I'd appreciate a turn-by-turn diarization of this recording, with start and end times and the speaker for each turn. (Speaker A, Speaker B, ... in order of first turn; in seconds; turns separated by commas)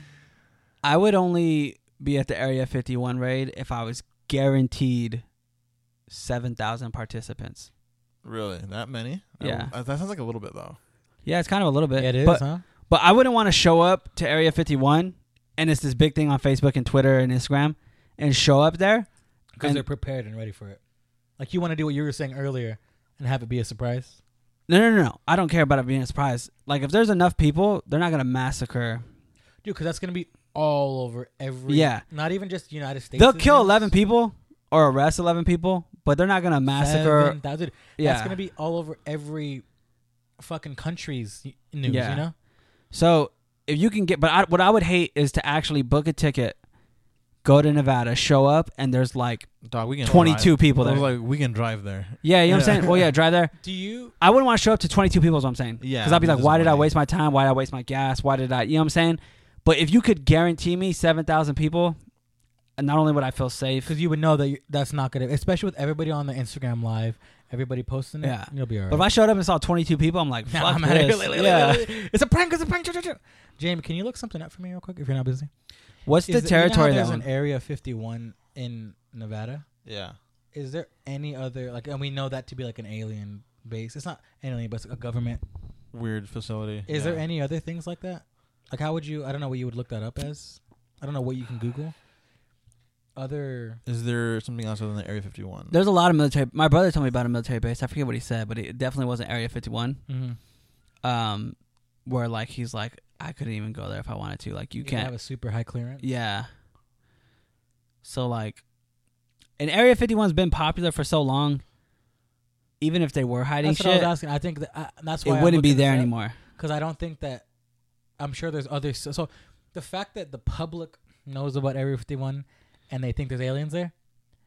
Speaker A: 0.8-5.2, Speaker A: 6.1-7.7, Speaker B: 8.2-10.8, Speaker A: 9.4-9.7, Speaker A: 11.2-19.1, Speaker C: 12.0-12.6, Speaker C: 19.6-20.8, Speaker C: 21.4-24.2, Speaker A: 24.7-29.0, Speaker C: 29.6-33.9, Speaker A: 31.7-32.0, Speaker A: 33.1-37.4, Speaker C: 36.7-39.6, Speaker A: 38.0-38.4, Speaker C: 40.4-42.3, Speaker A: 41.8-42.2, Speaker A: 42.9-46.6, Speaker A: 47.4-51.1, Speaker B: 49.6-53.1, Speaker C: 50.0-50.5, Speaker A: 52.2-53.5, Speaker C: 53.6-54.1, Speaker A: 54.2-62.0, Speaker B: 55.8-56.9, Speaker A: 62.8-63.9, Speaker C: 63.9-69.1, Speaker A: 68.2-72.0, Speaker C: 70.5-75.5, Speaker A: 76.0-77.2, Speaker C: 76.3-79.7, Speaker B: 79.8-80.2, Speaker C: 80.5-85.4, Speaker B: 85.9-87.2, Speaker C: 86.9-91.9, Speaker C: 93.2-93.8, Speaker B: 93.8-95.8, Speaker A: 95.7-100.0, Speaker C: 100.1-100.4, Speaker A: 101.0-105.1, Speaker C: 104.8-106.0, Speaker A: 106.0-106.5, Speaker A: 108.0-108.6, Speaker A: 109.6-111.6, Speaker A: 112.8-114.1, Speaker C: 113.6-117.4, Speaker A: 115.2-116.4, Speaker C: 118.2-123.9